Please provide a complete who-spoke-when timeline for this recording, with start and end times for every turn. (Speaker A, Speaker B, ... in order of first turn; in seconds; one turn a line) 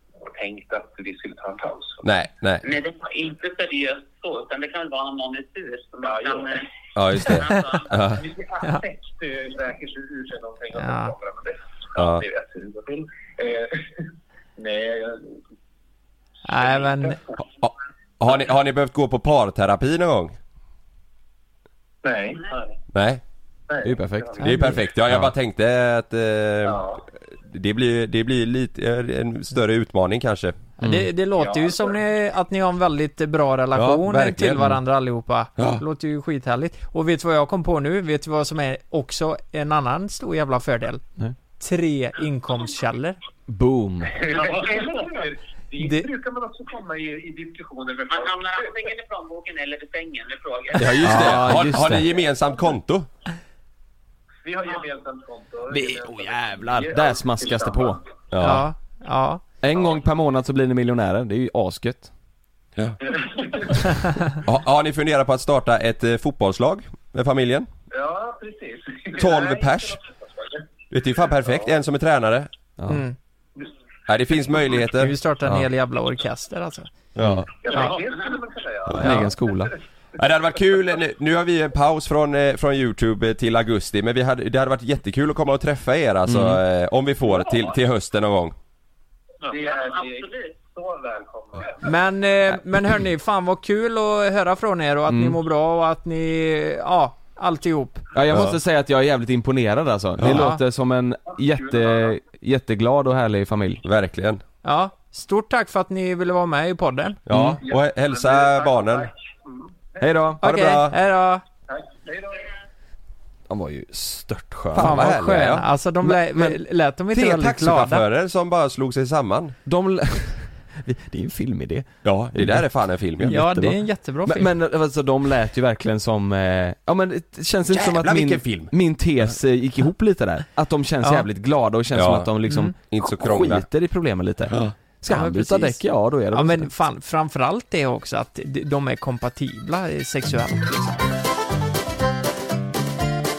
Speaker A: 0.2-2.0
Speaker B: 2.0-2.6
Speaker C: 2.6-6.7
Speaker A: 6.0-6.5
Speaker B: 7.0-8.2
Speaker C: 7.2-7.9
Speaker A: 8.2-15.4
Speaker D: 10.8-11.1
Speaker B: 12.0-12.2
Speaker D: 16.4-17.2
Speaker A: 16.5-17.4
Speaker B: 17.6-20.4
Speaker A: 22.0-22.7
Speaker B: 22.9-23.2
Speaker A: 23.7-24.5
Speaker E: 23.8-25.3
Speaker D: 24.4-24.7
Speaker B: 24.4-26.8
Speaker A: 26.6-27.0
Speaker B: 27.4-30.6
Speaker D: 30.8-41.0
Speaker E: 30.8-31.1
Speaker A: 31.4-31.9
Speaker B: 33.8-34.7
Speaker D: 41.6-43.2
Speaker E: 43.5-44.2
Speaker A: 44.1-48.7
Speaker D: 45.8-46.1
Speaker C: 48.1-51.1
Speaker B: 50.8-53.1
Speaker E: 51.0-52.1
Speaker A: 54.4-58.0
Speaker E: 55.7-58.0
Speaker B: 58.3-58.6
Speaker D: 58.4-59.4
Speaker E: 59.6-62.1
Speaker A: 63.1-63.6
Speaker B: 64.4-67.7
Speaker A: 67.9-70.6
Speaker B: 69.2-70.0
Speaker B: 70.9-72.5
Speaker E: 72.8-73.0
Speaker D: 72.9-73.2
Speaker B: 74.1-75.1
Speaker D: 75.0-76.9
Speaker B: 77.2-77.5
Speaker E: 77.2-77.5
Speaker A: 77.6-79.7
Speaker E: 78.9-79.7
Speaker B: 80.2-88.5
Speaker E: 86.3-86.6
Speaker A: 89.5-91.9
Speaker C: 89.5-90.5
Speaker D: 91.8-98.0
Speaker E: 95.1-95.4
Speaker E: 98.1-103.8
Speaker B: 98.3-98.6
Speaker D: 100.2-100.6
Speaker B: 103.8-104.4
Speaker D: 104.6-107.2
Speaker B: 107.3-109.1
Speaker E: 107.3-107.6
Speaker A: 107.7-109.7
Speaker E: 110.0-110.4
Speaker D: 110.4-111.4
Speaker B: 110.4-110.9
Speaker A: 111.7-112.5
Speaker E: 113.5-115.2
Speaker B: 114.8-116.6
Speaker D: 114.8-118.0
Speaker B: 117.1-119.6
Speaker E: 119.7-122.7
Speaker B: 122.0-123.4
Speaker E: 123.2-136.7
Speaker D: 123.2-124.5
Speaker B: 127.7-128.7
Speaker B: 131.9-133.7
Speaker D: 132.5-132.7
Speaker B: 134.5-134.7
Speaker D: 135.1-141.0